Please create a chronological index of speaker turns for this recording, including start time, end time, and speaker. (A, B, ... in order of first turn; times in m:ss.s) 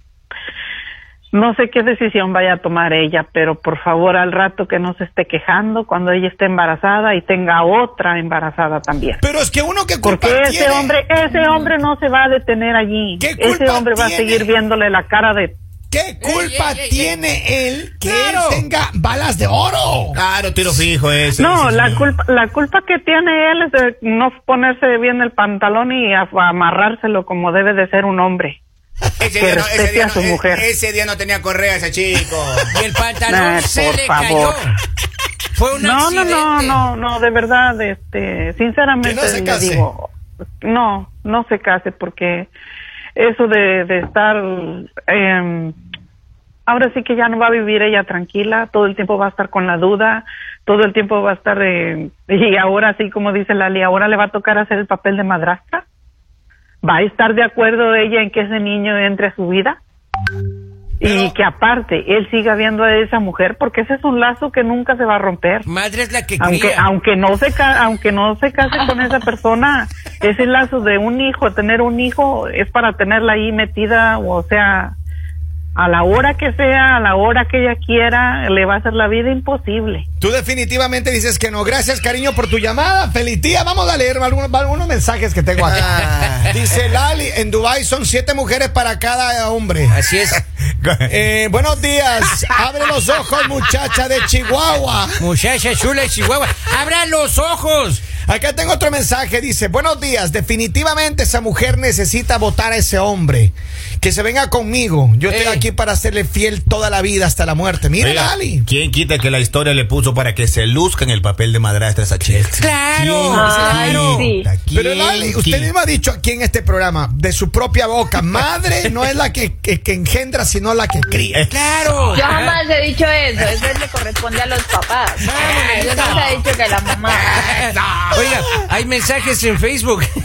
0:01.3-0:09.2 A
0:09.2-0:10.9 B
0:10.0-0:15.5 A
0:11.3-0:11.7 C
0:13.2-0:14.5 B
0:15.9-0:20.2 B
0:16.2-0:17.2 D
0:18.0-0:18.6 D
0:20.1-0:22.1 E
0:21.4-0:28.6 A
0:29.2-0:32.7 E
0:29.3-0:30.7 A
0:32.7-0:34.7 D
0:33.3-0:34.6 A
0:35.5-0:36.8 D
0:35.7-0:40.1 A
0:39.0-0:39.9 B
0:40.6-0:42.5 A
0:43.1-0:45.7 A
0:46.7-0:55.8 A
0:56.8-0:59.8 A
1:01.0-1:05.6 A
1:05.6-1:06.8 D
1:06.4-1:14.9 A
1:08.7-1:09.2 C
1:15.7-1:20.0 A
1:20.2-1:30.0 B
1:25.6-1:26.5 E
1:29.9-1:30.4 D
1:30.8-1:31.1 E
1:31.1-1:35.1 B
1:32.3-1:32.6 E
1:35.2-1:38.0 D
1:38.2-1:48.7 B
1:45.3-1:45.6 D
1:48.0-1:55.7 E
1:52.6-1:54.3 D
1:53.3-1:54.5 C
1:53.3-2:01.4 B
2:01.3-2:02.2 E
2:01.5-2:02.6 D
2:02.1-2:07.4 C
2:05.2-2:06.4 D
2:07.1-2:10.1 D
2:07.2-2:08.2 E